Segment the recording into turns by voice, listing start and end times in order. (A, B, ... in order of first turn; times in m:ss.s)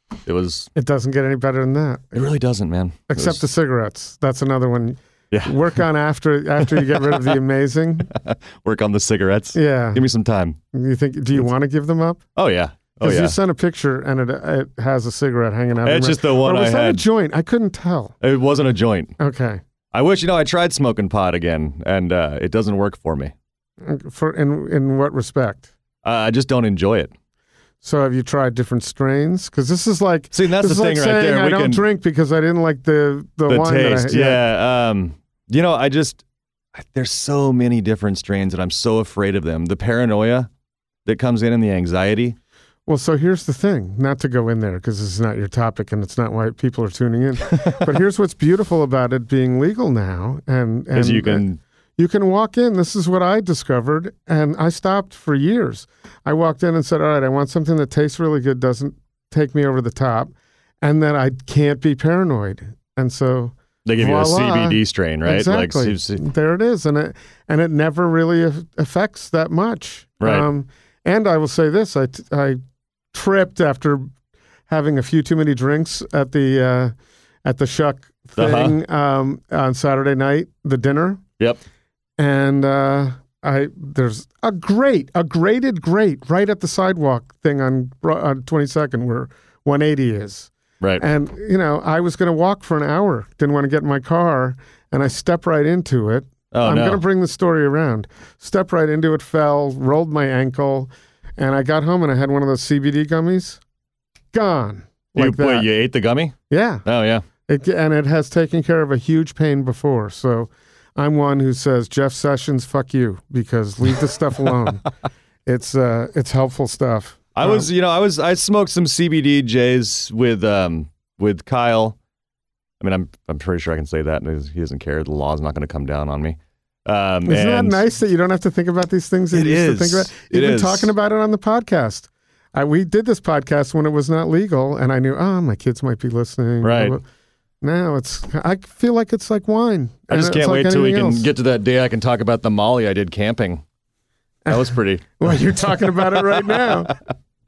0:00.2-0:00.7 A
0:00.8-0:02.2 B
0:02.1-0:03.4 A
0:03.1-0:08.1 B
0:05.3-0:05.8 A
0:06.7-0:07.4 A
0:08.1-0:10.6 A
0:09.5-0:10.0 B
0:10.7-0:12.2 B
0:12.4-0:13.4 A
0:13.0-0:18.1 B
0:15.8-0:17.0 A
0:18.2-0:19.2 A
0:19.2-0:19.6 B
0:19.9-0:23.3 A
0:23.8-0:25.7 B
0:26.0-0:27.1 A
0:27.8-0:34.4 B
0:30.3-0:31.8 A
0:33.5-0:36.2 A
0:36.7-0:40.5 A
0:41.0-0:42.4 A
0:42.9-0:51.4 B
0:50.9-0:51.6 A
0:52.0-1:12.6 B
1:03.8-1:06.2 A
1:10.2-1:10.5 A
1:13.1-1:14.1 B
1:14.7-1:16.9 B
1:17.4-1:21.2 B
1:18.4-1:18.8 A
1:22.2-1:43.6 B
1:36.5-1:37.0 A
1:44.3-1:45.7 B
1:45.2-1:47.2 A
1:46.5-1:46.8 B
1:47.5-1:54.8 B
1:55.5-1:57.7 B
1:57.4-2:02.0 A
2:02.8-2:07.8 A
2:07.3-2:17.0 B
2:09.3-2:10.9 A
2:16.6-2:17.0 A
2:17.6-2:21.3 B
2:20.1-2:23.6 A
2:24.4-2:26.9 B
2:24.5-2:27.0 A